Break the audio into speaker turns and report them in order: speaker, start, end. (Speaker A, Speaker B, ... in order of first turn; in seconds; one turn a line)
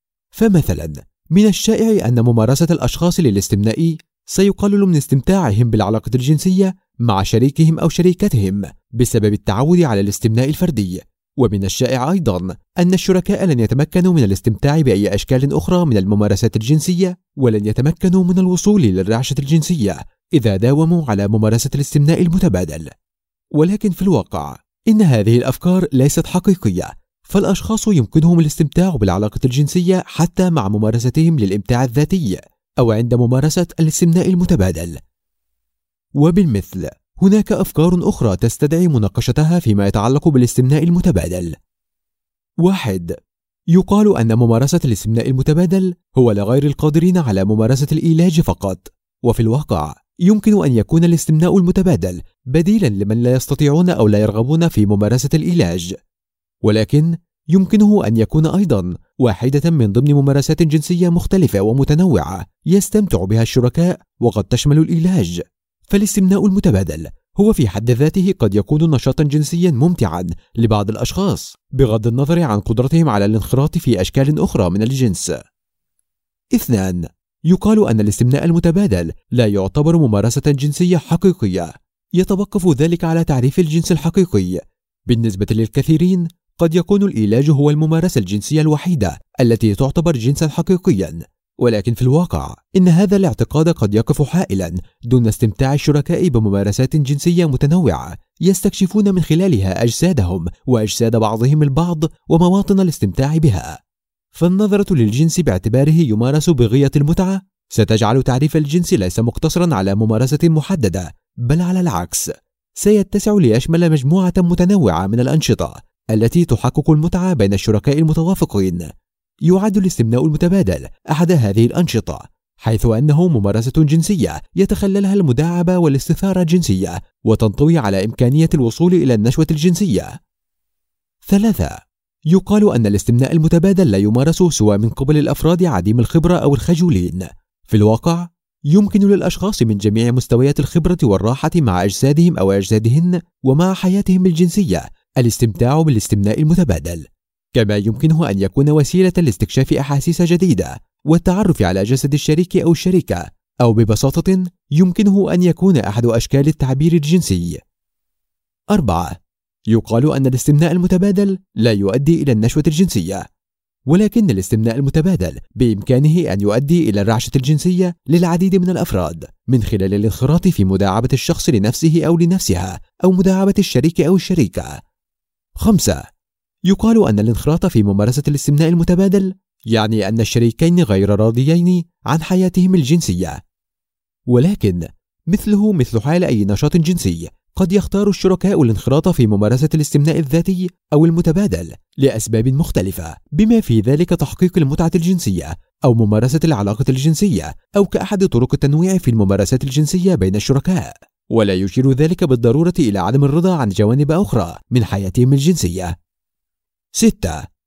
Speaker A: 0.3-22.9
Speaker A: 23.5-35.0
Speaker A: 36.2-41.6
Speaker A: 42.6-43.2
Speaker A: 43.7-55.9
Speaker A: 56.6-75.4
Speaker A: 76.5-103.8
Speaker A: 104.3-118.9
Speaker A: 119.5-130.2
Speaker A: 131.2-157.6
Speaker A: 158.7-159.2
Speaker A: 159.7-163.2
Speaker A: 163.9-174.8
Speaker A: 175.6-176.0
Speaker A: 176.7-183.4
Speaker A: 184.3-206.0
Speaker A: 206.9-207.5